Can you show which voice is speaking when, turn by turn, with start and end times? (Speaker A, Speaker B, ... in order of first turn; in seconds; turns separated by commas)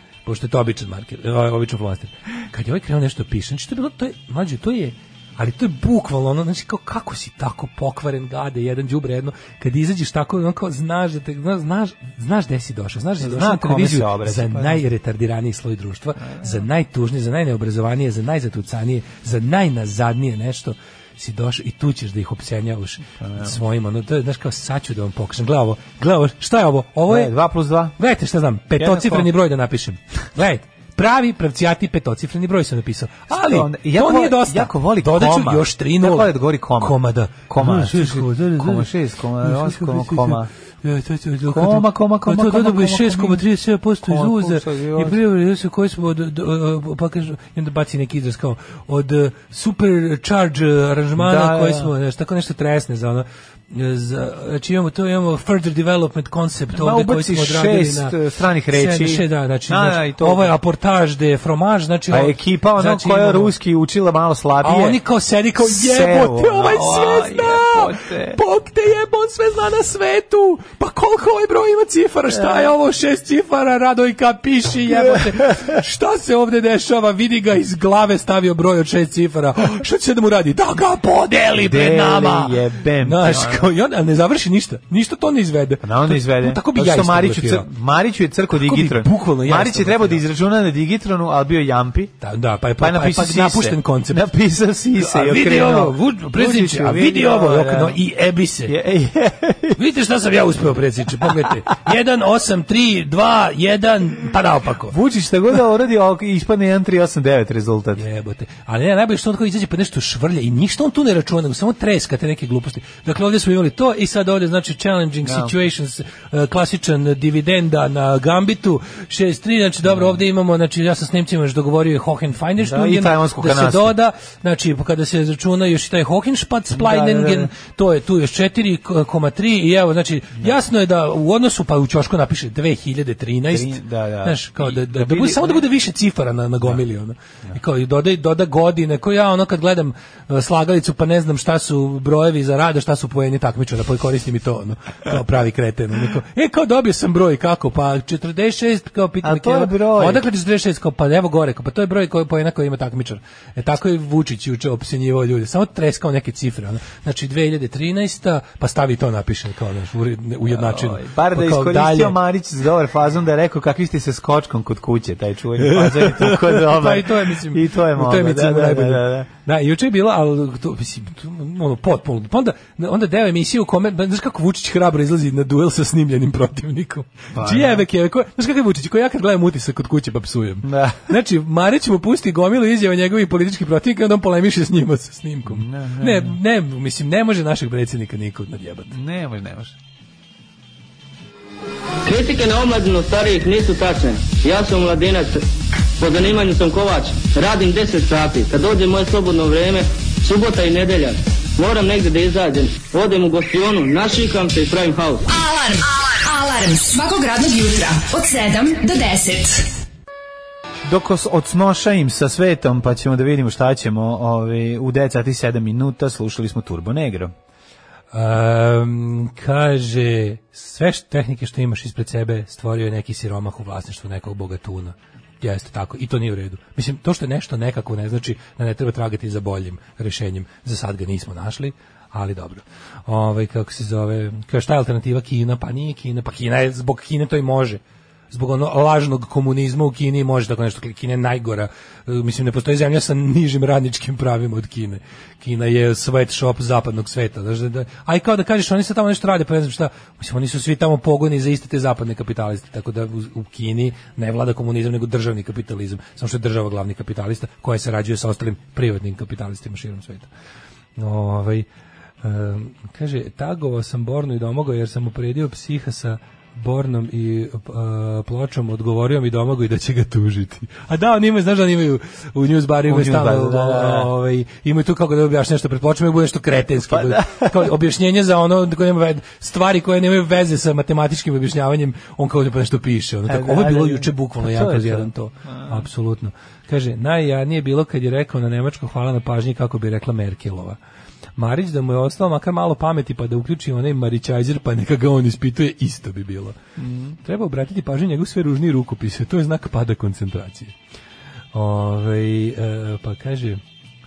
Speaker A: 0.2-27.3, Speaker B: 13.2-14.8, Speaker B: 16.3-16.6, Speaker B: 23.2-23.6, Speaker B: 27.1-28.0, Speaker A: 28.0-38.9, Speaker B: 28.8-29.3, Speaker B: 33.3-37.0, Speaker B: 37.5-40.5, Speaker A: 39.4-58.2, Speaker B: 41.5-43.5, Speaker B: 44.0-45.2, Speaker B: 51.2-51.9, Speaker B: 56.7-60.5, Speaker A: 58.7-63.5, Speaker B: 62.1-65.0, Speaker A: 64.6-87.7, Speaker B: 65.6-68.4, Speaker B: 72.3-72.7, Speaker B: 74.9-75.8, Speaker B: 81.6-83.7, Speaker B: 85.8-92.1, Speaker A: 88.5-90.2, Speaker A: 92.2-94.3, Speaker B: 92.8-98.0, Speaker A: 95.0-98.7, Speaker B: 98.7-99.8, Speaker A: 99.8-105.0, Speaker B: 104.9-108.0, Speaker A: 108.0-162.2, Speaker B: 115.2-115.5, Speaker B: 119.9-120.2, Speaker B: 122.6-124.0, Speaker B: 126.7-127.5, Speaker B: 133.5-135.6, Speaker B: 149.2-150.2, Speaker B: 160.4-169.3, Speaker A: 165.6-188.9, Speaker B: 177.3-177.8, Speaker B: 180.6-181.1, Speaker B: 185.5-186.4, Speaker B: 188.9-189.8, Speaker C: 192.0-195.5, Speaker C: 196.0-205.2, Speaker D: 205.3-209.7, Speaker B: 210.9-217.3, Speaker A: 218.1-237.8, Speaker A: 238.3-260.3, Speaker A: 261.0-261.7, Speaker A: 262.2-290.8, Speaker B: 272.9-274.1, Speaker B: 276.9-277.7, Speaker B: 283.3-285.9, Speaker A: 291.4-296.6, Speaker B: 296.8-297.2, Speaker A: 297.2-300.7, Speaker A: 301.5-303.6